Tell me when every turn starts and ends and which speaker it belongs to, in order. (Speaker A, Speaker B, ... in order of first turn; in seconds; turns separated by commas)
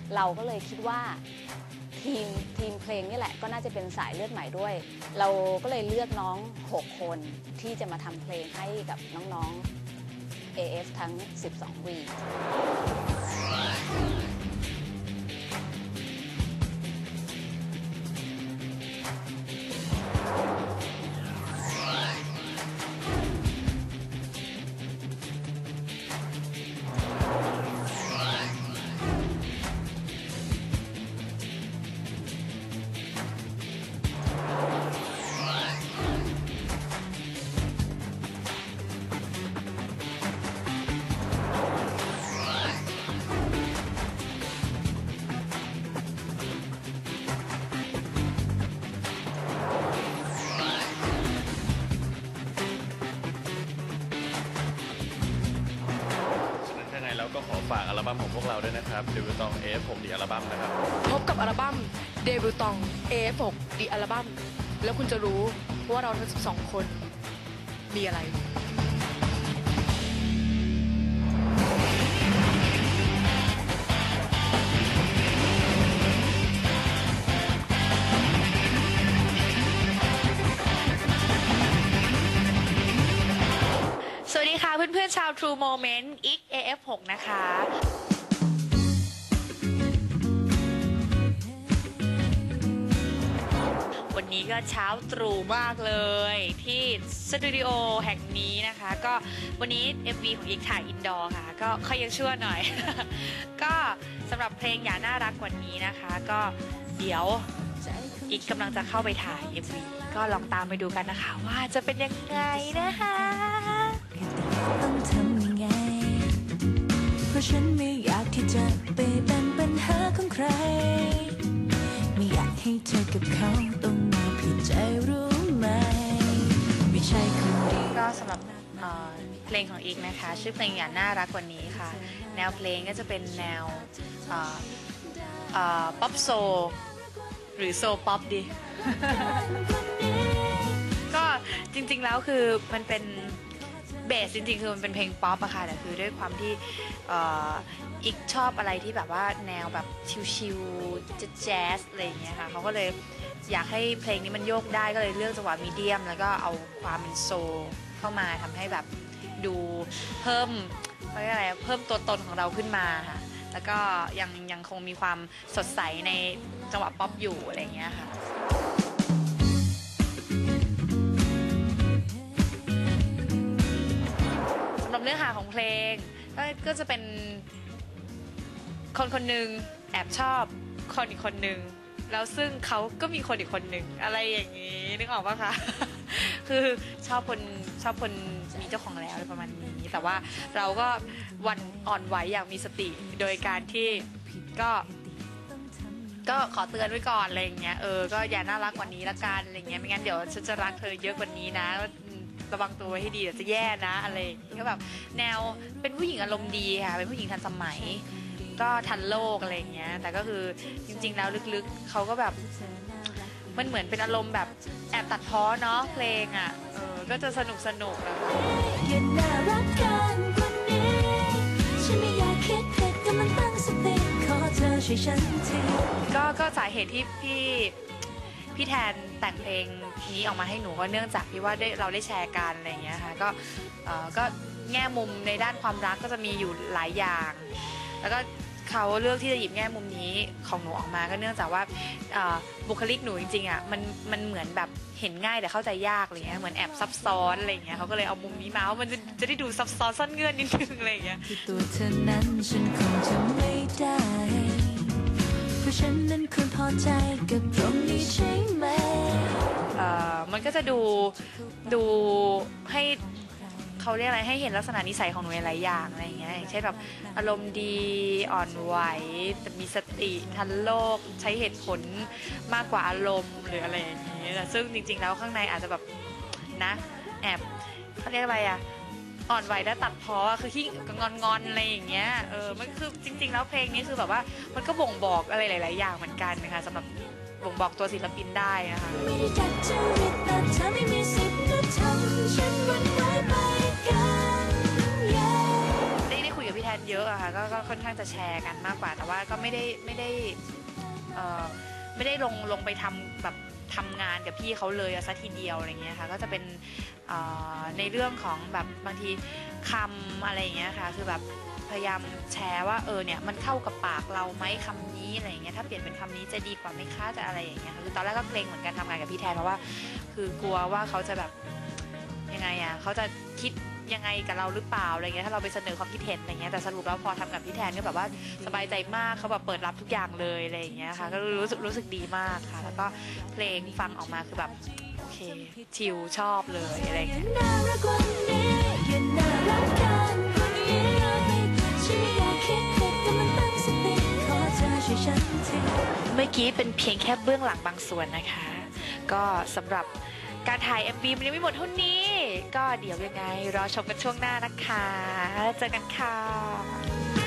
Speaker A: 0.1-1.2, Speaker A: 1.9-9.7, Speaker A: 10.5-12.2, Speaker B: 56.6-60.8, Speaker C: 61.0-67.1, Speaker C: 67.9-68.4, Speaker D: 84.2-87.7, Speaker D: 94.1-107.5, Speaker E: 107.8-110.5, Speaker D: 108.3-114.0, Speaker E: 112.8-113.4, Speaker E: 114.1-116.4, Speaker E: 117.3-121.4, Speaker E: 122.1-128.0, Speaker D: 127.9-134.7, Speaker D: 135.5-136.8, Speaker D: 137.6-139.6, Speaker E: 139.5-140.6, Speaker D: 141.0-143.5, Speaker D: 144.0-168.1, Speaker D: 174.8-177.5, Speaker D: 178.9-194.9, Speaker D: 196.2-212.4, Speaker E: 212.4-213.1, Speaker D: 213.5-218.5, Speaker E: 218.3-225.9, Speaker D: 226.0-227.8, Speaker D: 228.5-251.3, Speaker E: 247.0-247.5, Speaker E: 251.3-259.4, Speaker D: 259.7-263.0, Speaker D: 263.8-275.8, Speaker D: 276.5-278.6, Speaker D: 279.3-289.1, Speaker E: 288.9-296.0, Speaker D: 296.1-300.4, Speaker D: 301.1-321.3, Speaker D: 322.3-337.2, Speaker E: 336.8-345.8, Speaker D: 346.1-356.9